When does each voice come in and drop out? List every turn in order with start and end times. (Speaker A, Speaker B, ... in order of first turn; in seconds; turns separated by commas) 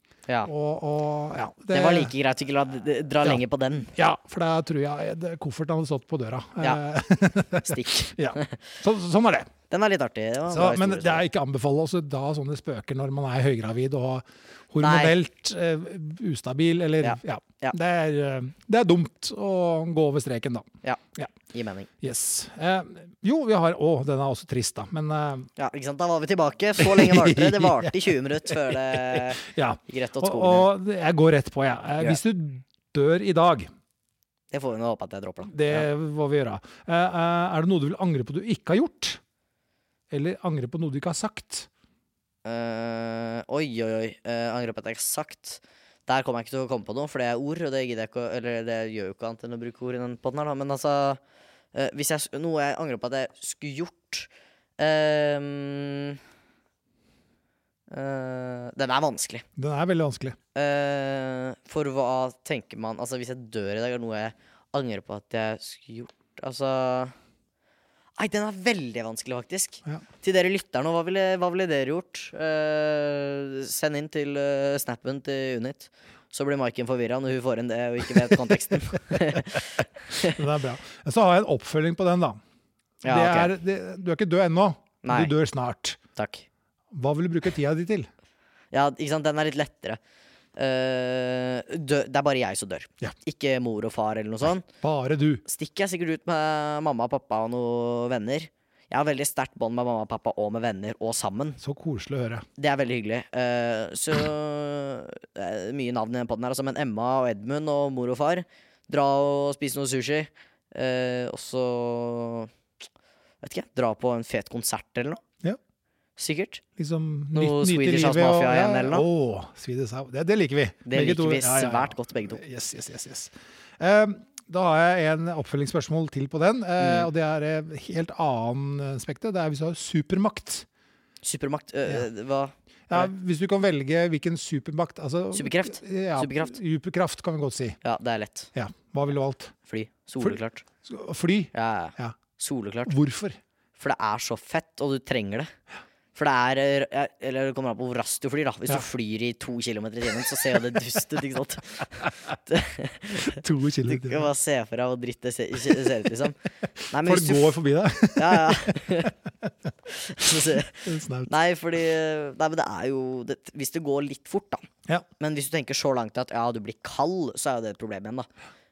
Speaker A: 0.4-2.1, Speaker B: 1.7-3.9, Speaker A: 3.9-9.5, Speaker B: 7.6-8.6, Speaker B: 9.7-11.2, Speaker A: 10.5-21.3, Speaker B: 14.8-15.2, Speaker B: 17.0-17.8, Speaker B: 20.8-21.9, Speaker A: 22.0-25.5, Speaker B: 25.6-30.7, Speaker A: 26.8-33.7, Speaker B: 34.5-35.9, Speaker A: 35.4-39.2, Speaker A: 40.1-41.7, Speaker B: 42.4-51.2, Speaker B: 51.7-56.2, Speaker B: 57.9-59.4, Speaker A: 59.5-60.4, Speaker B: 60.5-67.1, Speaker B: 68.2-80.4, Speaker A: 79.1-79.4, Speaker A: 80.2-82.4, Speaker B: 83.0-83.5, Speaker A: 83.0-86.0, Speaker B: 85.0-85.3, Speaker B: 86.2-86.5, Speaker A: 86.9-88.1, Speaker B: 88.7-90.0, Speaker B: 90.5-94.7, Speaker A: 94.8-95.4, Speaker B: 95.5-101.6, Speaker A: 101.6-102.5, Speaker B: 102.6-112.5, Speaker B: 113.4-115.2, Speaker B: 116.2-116.6, Speaker A: 116.8-130.7, Speaker B: 117.3-119.0, Speaker B: 120.8-122.4, Speaker B: 126.8-127.1, Speaker B: 131.2-133.1, Speaker A: 132.9-137.8, Speaker B: 135.3-136.5, Speaker B: 137.8-138.5, Speaker A: 138.5-139.5, Speaker B: 139.7-140.7, Speaker A: 140.2-142.2, Speaker B: 141.5-142.9, Speaker A: 142.9-143.4, Speaker B: 143.8-145.5, Speaker B: 146.1-157.6, Speaker A: 153.2-154.3, Speaker A: 156.9-159.5, Speaker B: 158.1-159.1, Speaker B: 159.9-164.7, Speaker A: 160.2-161.3, Speaker B: 165.2-168.3